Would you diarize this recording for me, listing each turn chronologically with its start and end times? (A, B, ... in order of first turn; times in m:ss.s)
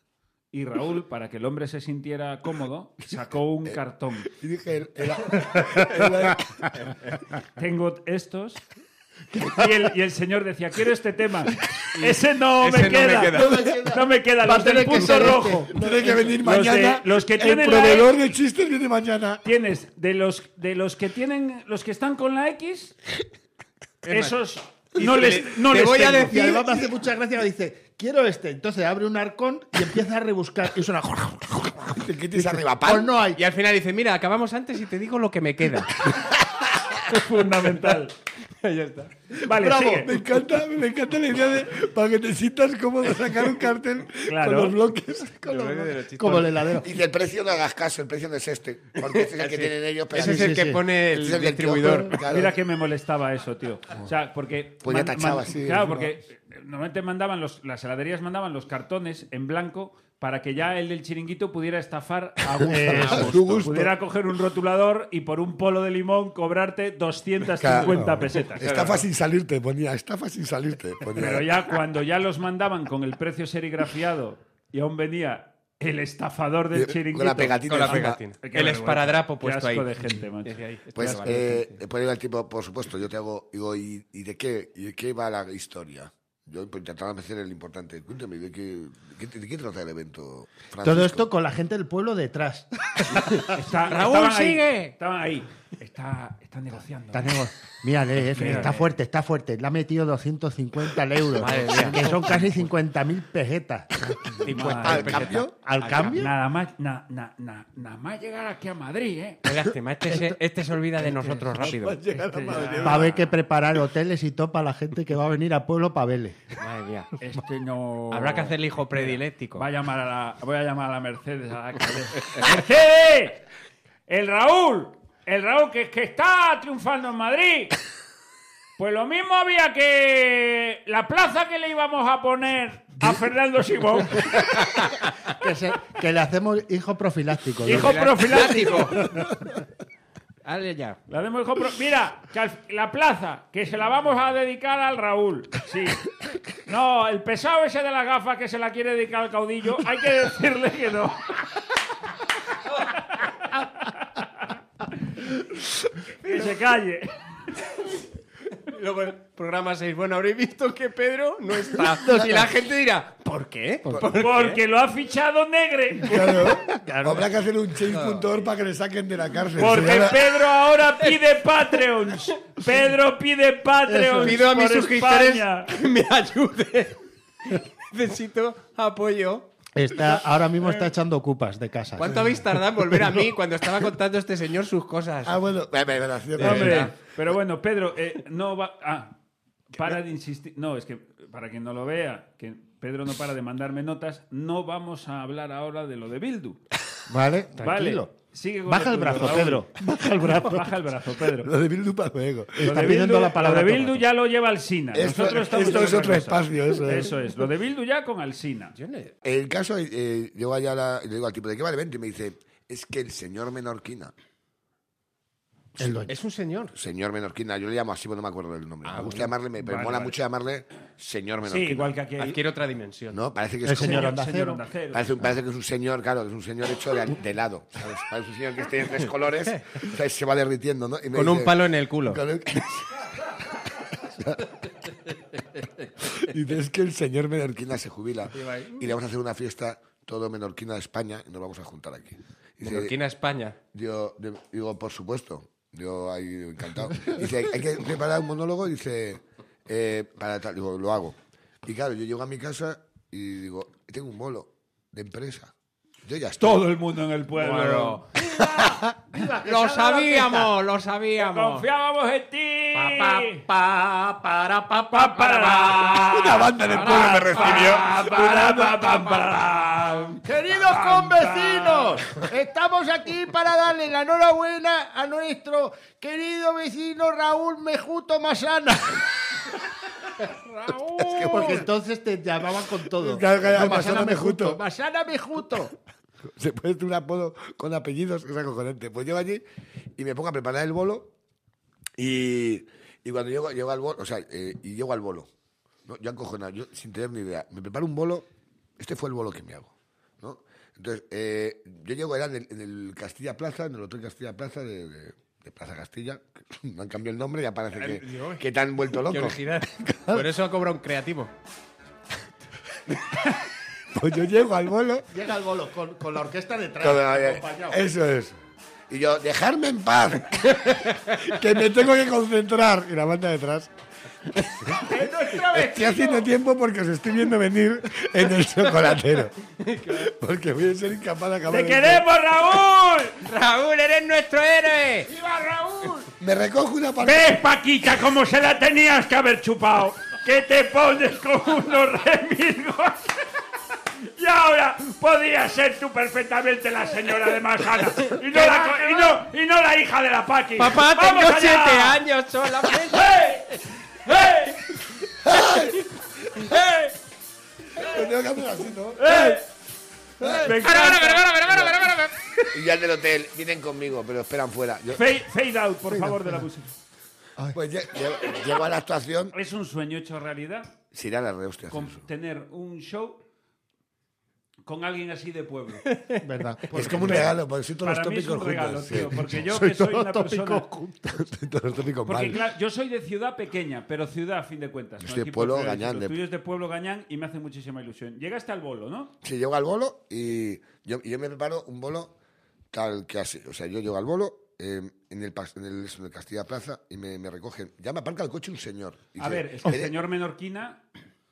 0:00.5-0:04.3 A
0:04.3-0:06.7 B
0:07.6-0:08.6 A
0:09.3-0:09.6 B
0:09.4-0:15.7 A
0:11.9-0:13.8 C
0:13.3-0:16.4 D
0:15.7-0:19.4 B
0:16.4-0:18.1 A
0:19.4-0:23.0 A
0:24.0-0:24.4 C
0:24.1-0:26.5 A
0:25.0-0:26.9 C
0:26.3-0:33.4 D
0:31.8-0:33.1 B
0:33.4-0:36.1 C
0:36.1-0:36.4 B
0:37.1-0:38.1 A
0:38.6-0:39.1 C
0:39.4-0:40.1 A
0:39.5-0:40.1 D
0:39.6-0:45.8 B
0:44.3-0:44.8 A
0:45.4-0:46.7 C
0:45.5-0:46.9 D
0:46.8-0:52.6 B
0:49.0-0:52.2 C
0:50.1-0:50.8 D
0:52.3-1:09.0 A
0:54.8-0:56.1 B
1:02.6-1:03.9 B
1:02.7-1:03.2 D
1:02.9-1:03.7 C
1:07.6-1:11.5 B
1:11.1-1:21.2 A
1:16.7-1:18.2 B
1:17.7-1:19.9 C
1:20.4-1:21.8 C
1:21.0-1:31.2 B
1:30.8-1:33.4 D
1:33.4-1:37.4 A
1:33.8-1:34.9 C
1:37.1-1:46.4 D
1:38.4-1:38.9 A
1:41.4-1:42.7 C
1:44.4-1:46.3 C
1:44.4-1:45.4 A
1:44.6-1:45.5 B
1:46.1-1:49.5 A
1:49.4-1:53.2 C
1:50.1-1:50.4 D
1:51.5-1:53.1 B
1:52.1-1:53.2 A
1:52.8-1:56.5 D
1:56.6-1:57.1 C
1:57.2-2:03.4 A
1:58.1-1:59.6 C
2:04.1-2:07.8 A
2:08.8-2:14.6 A
2:15.2-2:18.1 D
2:17.6-2:19.2 C
2:17.6-2:19.0 A
2:20.4-2:21.0 C
2:21.1-2:31.6 A
2:32.9-2:34.5 A
2:36.1-2:37.1 A
2:38.6-2:44.6 C
2:41.8-2:42.5 D
2:44.1-2:46.4 A
2:46.1-2:50.3 B
2:46.3-2:47.3 D
2:47.9-2:48.4 C
2:49.6-2:55.7 A
2:53.9-2:54.4 D
2:54.2-2:59.5 C
2:59.8-3:02.4 D
3:02.0-3:05.4 C
3:05.2-3:06.9 B
3:06.4-3:06.9 C
3:06.4-3:09.2 A
3:09.7-3:16.6 A
3:17.1-3:18.1 D
3:17.6-3:19.6 A
3:18.7-3:20.7 D
3:20.2-3:21.5 A
3:21.4-3:23.0 B
3:22.6-3:24.1 D
3:22.6-3:28.7 A
3:24.9-3:27.2 B
3:28.8-3:29.1 C
3:29.2-3:34.1 B
3:35.8-3:36.1 D
3:36.1-3:36.8 C
3:36.8-3:41.9 B
3:38.8-3:39.3 C
3:39.6-3:40.2 A
3:41.4-3:42.4 A
3:42.2-3:43.2 C
3:43.1-3:44.1 B
3:43.6-3:44.6 D
3:43.8-3:45.1 A
3:44.9-3:54.5 B
3:51.1-3:52.2 C
3:56.0-4:02.9 B
3:58.4-3:58.7 C
4:02.6-4:03.6 C
4:03.7-4:15.5 B
4:16.0-4:16.7 B
4:16.4-4:18.0 A
4:17.4-4:18.0 C
4:18.3-4:20.5 D
4:19.4-4:21.6 C
4:21.2-4:23.4 A
4:22.8-4:26.3 D
4:24.9-4:32.1 A
4:25.3-4:25.9 C
4:26.1-4:28.8 B
4:26.6-4:27.9 C
4:27.1-4:28.6 D
4:30.2-4:39.1 D
4:41.0-4:41.6 B
4:41.0-4:45.7 D
4:41.3-4:41.6 C
4:43.0-4:44.6 B
4:46.4-4:49.4 B
4:50.0-4:51.1 B
4:52.0-4:55.3 B
4:55.9-4:58.3 B
4:58.8-5:10.2 B
5:07.7-5:11.3 C
5:13.9-5:15.1 B
5:15.1-5:17.9 D
5:16.8-5:18.4 B
5:18.9-5:23.7 B
5:24.3-5:29.4 B
5:24.9-5:25.6 A
5:24.9-5:26.2 D
5:29.6-5:30.1 C
5:29.9-5:32.1 B
5:31.5-5:33.2 A
5:33.2-5:35.1 C
5:35.1-5:36.1 D
5:36.2-5:37.4 B
5:37.0-5:43.1 A
5:44.0-5:52.0 A
5:48.3-5:49.1 C
5:50.6-5:53.3 C
5:52.9-5:54.6 A
5:55.2-5:56.6 B
5:57.8-5:59.4 B
5:59.0-5:59.4 A
6:00.2-6:00.6 B
6:00.4-6:01.3 A
6:00.5-6:02.3 C
6:01.5-6:01.8 B
6:02.5-6:05.0 B
6:04.9-6:06.7 A
6:05.9-6:06.4 D
6:07.5-6:09.4 B
6:09.3-6:10.7 A
6:10.9-6:12.0 B
6:11.7-6:13.2 A
6:14.6-6:15.9 A
6:15.9-6:16.2 C
6:16.2-6:17.4 D
6:16.7-6:19.2 B
6:16.8-6:20.6 A
6:19.1-6:21.3 D
6:21.1-6:22.4 B
6:22.1-6:29.1 A
6:25.0-6:26.2 B
6:29.2-6:32.1 B
6:32.7-6:39.9 B
6:39.2-6:40.8 A